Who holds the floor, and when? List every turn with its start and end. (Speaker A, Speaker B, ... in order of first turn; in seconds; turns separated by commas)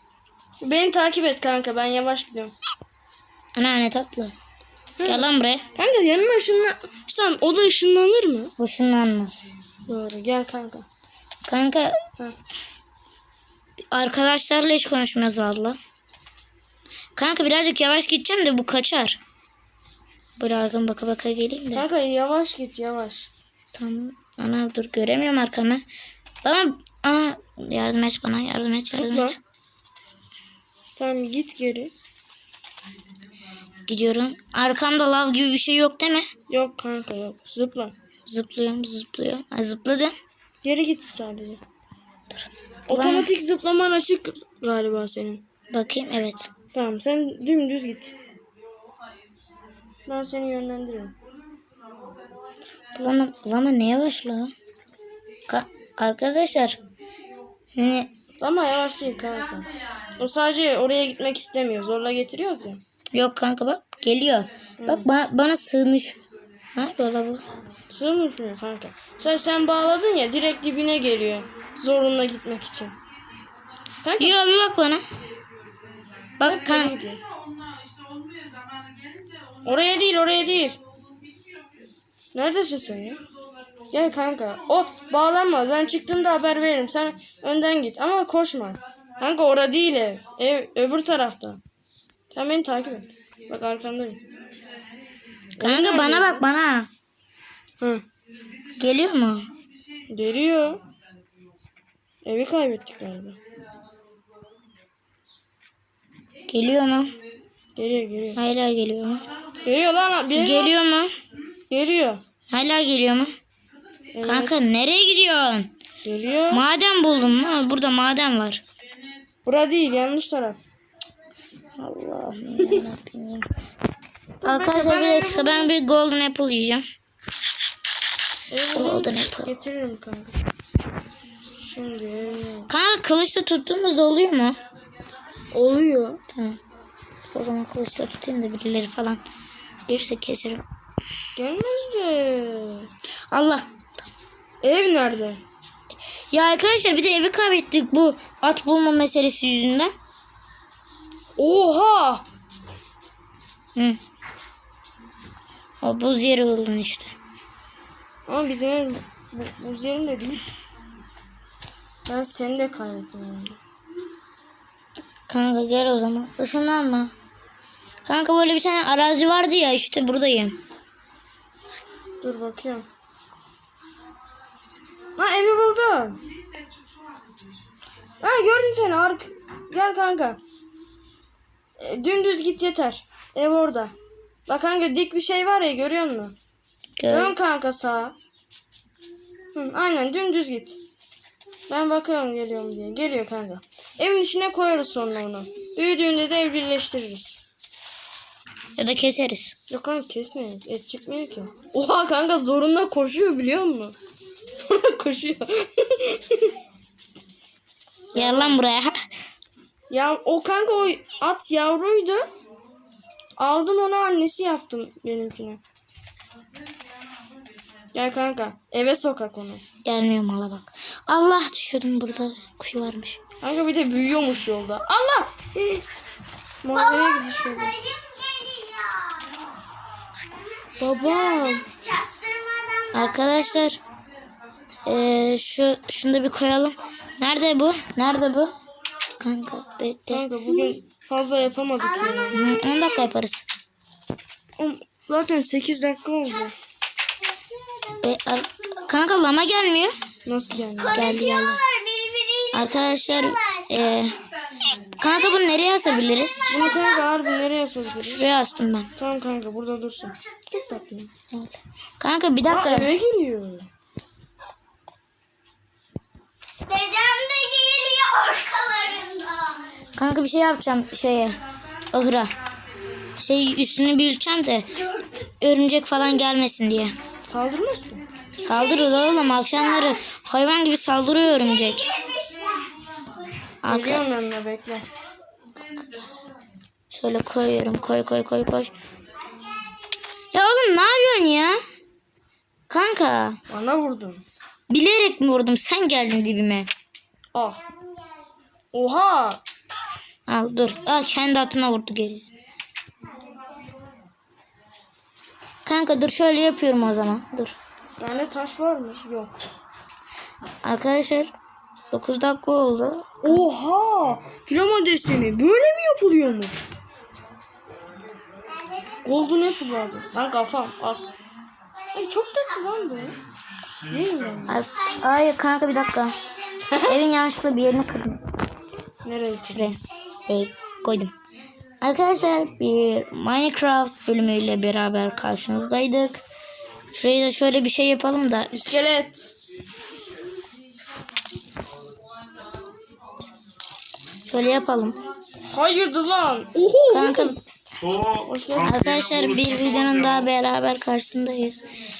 Speaker A: 0.6-2.5, Speaker B: 3.5-4.3, Speaker A: 5.0-8.5, Speaker B: 5.0-5.6, Speaker B: 8.6-9.4, Speaker A: 9.9-10.8, Speaker B: 11.4-12.0, Speaker B: 13.9-15.8, Speaker B: 17.1-19.2, Speaker B: 20.4-21.9, Speaker A: 21.7-23.3, Speaker B: 23.7-25.8, Speaker B: 26.4-29.4, Speaker A: 28.9-29.4, Speaker A: 31.0-31.9, Speaker B: 33.9-36.3, Speaker A: 36.5-37.9, Speaker B: 38.2-40.1, Speaker A: 40.6-41.6, Speaker B: 42.3-43.3, Speaker A: 42.9-45.4, Speaker B: 45.7-46.5, Speaker A: 46.7-48.1, Speaker A: 50.0-51.1, Speaker B: 52.9-54.5, Speaker B: 55.5-56.8, Speaker B: 57.7-58.1, Speaker A: 58.4-62.8, Speaker B: 63.1-66.2, Speaker A: 64.8-65.1, Speaker B: 66.7-67.4, Speaker A: 67.9-73.0, Speaker A: 74.0-74.4, Speaker B: 74.2-75.0, Speaker B: 76.4-76.9, Speaker A: 76.4-77.2, Speaker A: 79.6-80.8, Speaker A: 82.3-83.2, Speaker A: 83.9-91.6, Speaker A: 92.3-94.2, Speaker A: 95.6-96.4, Speaker B: 95.6-96.9, Speaker B: 98.8-99.5, Speaker A: 100.1-100.8, Speaker A: 102.2-103.4, Speaker B: 106.5-107.1, Speaker A: 107.8-108.4, Speaker B: 108.3-109.2, Speaker A: 109.6-110.8, Speaker B: 110.3-111.1, Speaker A: 111.7-112.2, Speaker B: 112.5-113.3, Speaker A: 114.1-114.6, Speaker B: 114.2-115.7, Speaker A: 116.0-116.6, Speaker B: 116.5-118.6, Speaker A: 119.4-120.6, Speaker B: 121.8-123.5, Speaker A: 124.4-125.7, Speaker B: 124.4-126.8, Speaker A: 128.5-130.4, Speaker B: 128.7-129.5, Speaker A: 131.6-132.7, Speaker B: 132.7-134.6, Speaker A: 135.5-136.2, Speaker B: 136.3-136.6, Speaker B: 137.3-139.2, Speaker B: 139.9-140.6, Speaker A: 141.3-142.9, Speaker B: 143.3-143.6, Speaker A: 144.6-145.4, Speaker B: 146.3-149.9, Speaker A: 151.4-152.2, Speaker B: 155.8-157.1, Speaker A: 158.3-160.5, Speaker A: 162.1-163.6, Speaker B: 165.3-167.1, Speaker B: 168.0-170.6, Speaker A: 172.2-172.9, Speaker A: 175.2-176.2, Speaker A: 178.2-180.4, Speaker A: 181.8-183.9, Speaker A: 184.5-186.3, Speaker B: 187.0-187.3, Speaker A: 187.1-188.2, Speaker A: 189.5-190.8, Speaker A: 191.7-197.4, Speaker B: 198.8-199.5, Speaker A: 199.7-203.9, Speaker A: 204.5-206.5, Speaker A: 208.1-208.6, Speaker B: 208.1-208.9, Speaker A: 209.9-212.3, Speaker A: 213.4-215.6, Speaker A: 217.9-219.6, Speaker B: 219.8-223.2, Speaker A: 223.4-225.3, Speaker A: 226.6-227.8, Speaker C: 227.3-229.3, Speaker A: 230.8-231.7, Speaker C: 231.8-232.9, Speaker B: 232.9-233.8, Speaker B: 234.8-238.5, Speaker B: 239.2-240.2, Speaker A: 240.1-242.4, Speaker B: 242.3-243.4, Speaker A: 244.6-246.5, Speaker B: 248.0-249.9, Speaker A: 250.2-251.1, Speaker B: 250.9-251.6, Speaker C: 251.1-252.5, Speaker B: 252.5-254.1, Speaker B: 255.0-256.6, Speaker A: 256.5-258.3, Speaker B: 258.0-258.9, Speaker A: 258.9-261.1, Speaker B: 261.3-262.9, Speaker A: 262.5-263.7, Speaker C: 266.6-269.7, Speaker B: 269.9-271.4, Speaker B: 271.9-272.3, Speaker B: 273.1-276.9, Speaker A: 277.2-278.0, Speaker B: 278.3-282.0, Speaker C: 282.0-282.7, Speaker B: 283.6-284.1, Speaker A: 283.6-284.9, Speaker B: 286.9-288.7, Speaker B: 290.3-291.6, Speaker B: 292.7-293.4, Speaker A: 293.5-294.2, Speaker B: 294.7-296.7, Speaker A: 297.3-297.6, Speaker A: 298.7-299.4, Speaker B: 300.3-302.2, Speaker B: 305.6-307.5, Speaker A: 308.0-309.3, Speaker B: 310.6-311.3, Speaker B: 311.9-313.4, Speaker A: 313.2-316.7, Speaker A: 319.0-321.1, Speaker A: 321.9-323.2, Speaker A: 323.9-324.6, Speaker B: 324.5-326.1, Speaker A: 326.7-327.0, Speaker B: 326.8-328.2, Speaker A: 329.0-329.7, Speaker B: 329.5-331.1, Speaker B: 331.8-336.2, Speaker B: 336.9-338.5, Speaker A: 338.5-339.3, Speaker B: 344.2-345.0, Speaker A: 345.5-347.4, Speaker B: 346.9-347.4, Speaker A: 348.1-348.8, Speaker B: 348.6-351.6